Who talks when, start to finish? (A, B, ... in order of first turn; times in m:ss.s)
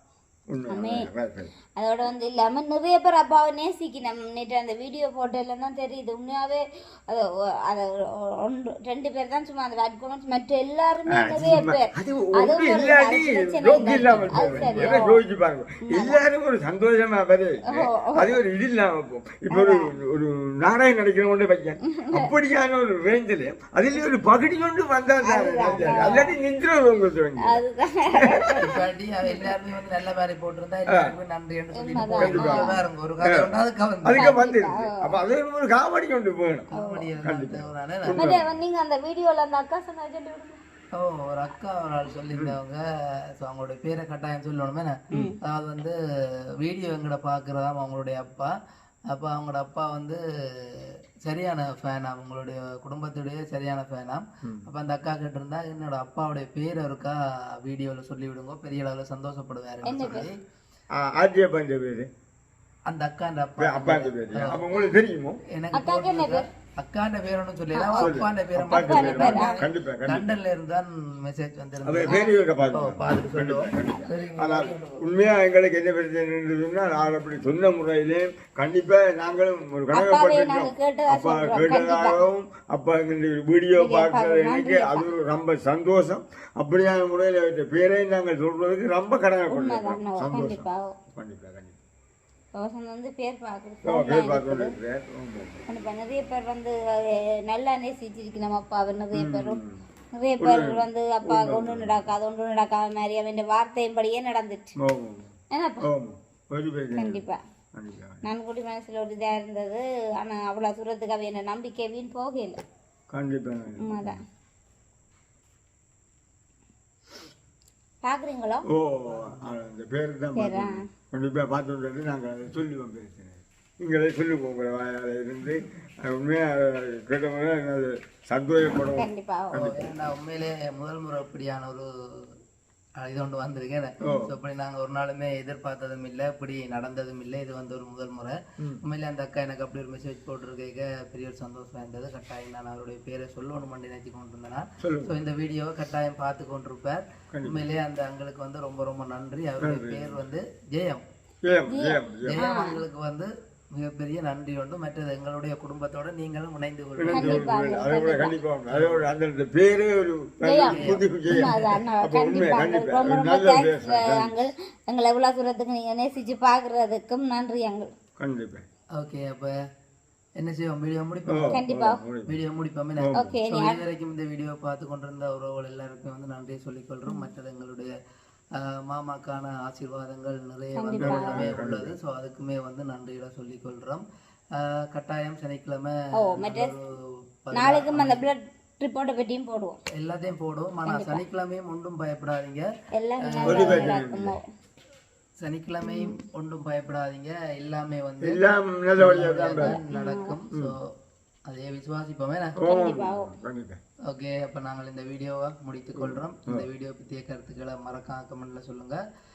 0:00.5-0:01.5 A
0:00.7-0:01.1 B
0:01.7-0:15.2 B
0:11.1-0:28.6 A
0:14.2-0:15.0 C
0:15.9-0:16.2 B
0:17.7-0:18.3 B
0:19.5-0:19.8 B
0:22.0-0:22.3 B
0:25.2-0:26.3 B
0:27.4-0:28.7 B
0:28.6-0:34.3 C
0:31.8-0:32.8 B
0:32.1-0:33.5 A
0:34.0-0:38.5 A
0:34.2-0:35.2 B
0:36.7-0:38.3 C
0:36.7-0:37.1 B
0:38.1-0:40.6 B
0:40.9-0:42.8 C
0:43.3-0:45.9 C
0:45.1-0:45.4 A
0:45.1-0:45.4 B
0:46.6-0:48.5 C
0:49.1-1:00.4 C
0:59.8-1:00.3 B
1:00.9-1:02.1 A
1:02.9-1:04.6 C
1:03.6-1:05.4 A
1:05.5-1:12.2 C
1:05.7-1:06.4 B
1:07.8-1:08.2 B
1:08.0-1:10.2 A
1:08.7-1:09.6 B
1:11.8-1:31.8 A
1:12.1-1:12.4 B
1:12.7-1:15.1 C
1:19.9-1:22.2 B
1:23.8-1:25.0 B
1:29.5-1:30.9 B
1:32.6-1:34.7 B
1:33.8-1:35.6 A
1:35.7-1:39.6 B
1:39.1-1:39.8 A
1:40.1-1:44.7 B
1:40.4-1:42.1 A
1:44.8-1:47.2 A
1:45.5-1:45.8 B
1:47.0-1:47.4 B
1:47.7-1:48.2 A
1:48.2-1:52.6 B
1:53.1-1:54.2 A
1:53.8-1:54.2 B
1:58.0-1:58.6 B
1:58.7-2:09.9 A
1:59.1-1:59.5 C
2:00.4-2:00.8 B
2:09.0-2:09.7 B
2:09.6-2:12.3 C
2:13.0-2:31.0 C
2:14.0-2:14.3 A
2:24.8-2:25.2 A
2:27.3-2:27.6 A
2:29.6-2:30.2 A
2:31.4-2:32.4 A
2:31.7-2:32.8 B
2:32.2-2:37.5 C
2:37.0-2:44.3 A
2:37.1-2:38.4 B
2:38.7-2:39.0 C
2:40.4-2:47.9 B
2:40.7-2:41.6 C
2:48.2-2:48.6 A
2:49.0-2:49.5 C
2:50.4-2:51.6 C
2:51.3-2:52.3 A
2:51.5-2:52.0 B
2:52.3-2:57.9 C
2:53.0-2:53.3 A
2:53.2-2:53.8 B
2:58.5-3:08.2 C
3:00.8-3:01.5 B
3:01.0-3:01.9 A
3:06.2-3:06.7 B
3:07.5-3:09.8 B
3:09.9-3:12.7 C
3:10.9-3:11.2 B
3:12.9-3:14.4 B
3:13.2-3:13.9 C
3:13.5-3:14.4 A
3:15.4-3:18.4 C
3:15.8-3:16.1 B
3:18.2-3:19.8 A
3:19.0-3:20.9 C
3:19.6-3:20.4 B
3:21.4-3:22.6 C
3:22.6-3:23.8 A
3:22.6-3:23.3 B
3:24.1-3:29.0 C
3:26.0-3:26.7 A